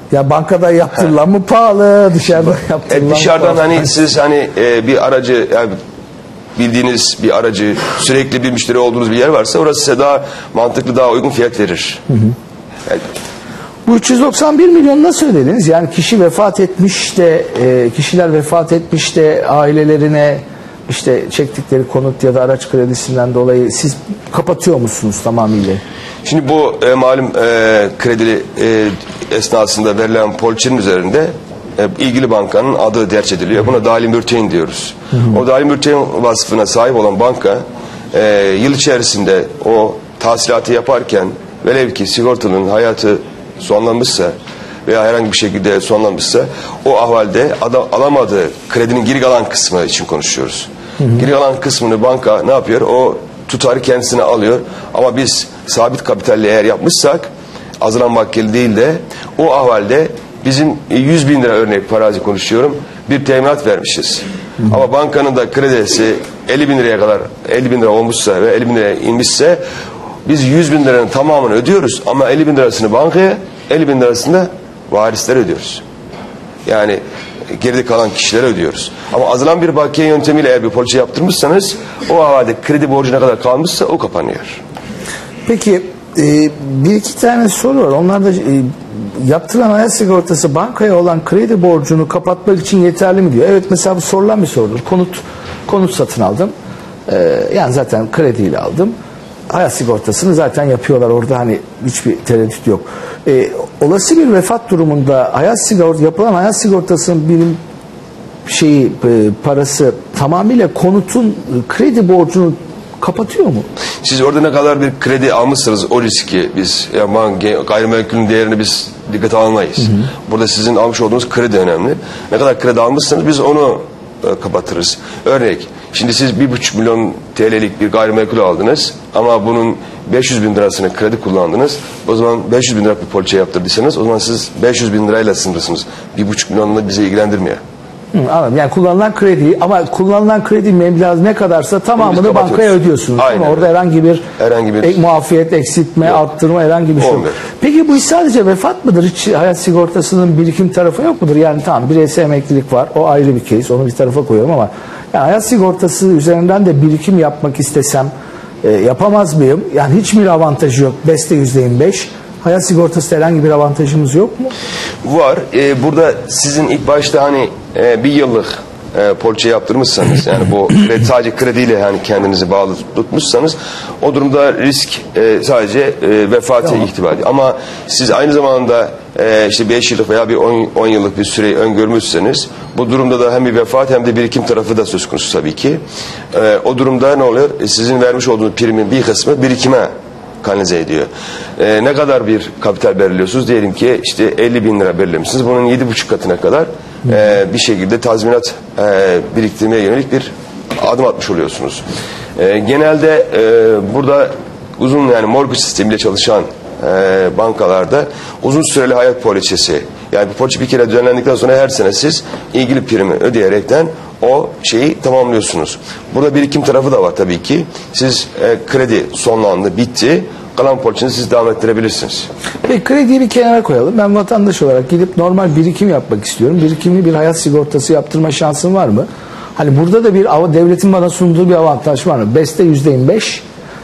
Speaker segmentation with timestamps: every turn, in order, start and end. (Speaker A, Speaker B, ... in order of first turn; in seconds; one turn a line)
Speaker A: 0.1-3.9
Speaker B: 2.9-5.8
Speaker B: 6.5-12.0
Speaker A: 12.1-12.3
Speaker A: 13.8-25.8
Speaker B: 26.2-44.3
Speaker A: 35.1-35.4
Speaker B: 44.9-57.3
Speaker B: 57.8-69.6
Speaker B: 70.2-75.8
Speaker B: 76.7-77.0
Speaker B: 77.5-84.6
Speaker A: 85.5-96.5
Speaker A: 97.1-98.9
Speaker A: 99.5-107.6
Speaker A: 108.5-113.7
Speaker B: 114.0-137.6
Speaker A: 138.1-144.2
Speaker B: 142.0-143.7
Speaker B: 144.4-145.0
Speaker A: 144.8-158.1
Speaker B: 147.0-147.4
Speaker A: 158.6-164.5
Speaker B: 165.0-185.8
Speaker B: 186.3-189.9
Speaker B: 190.4-201.8
Speaker B: 202.3-222.3
Speaker A: 222.6-233.4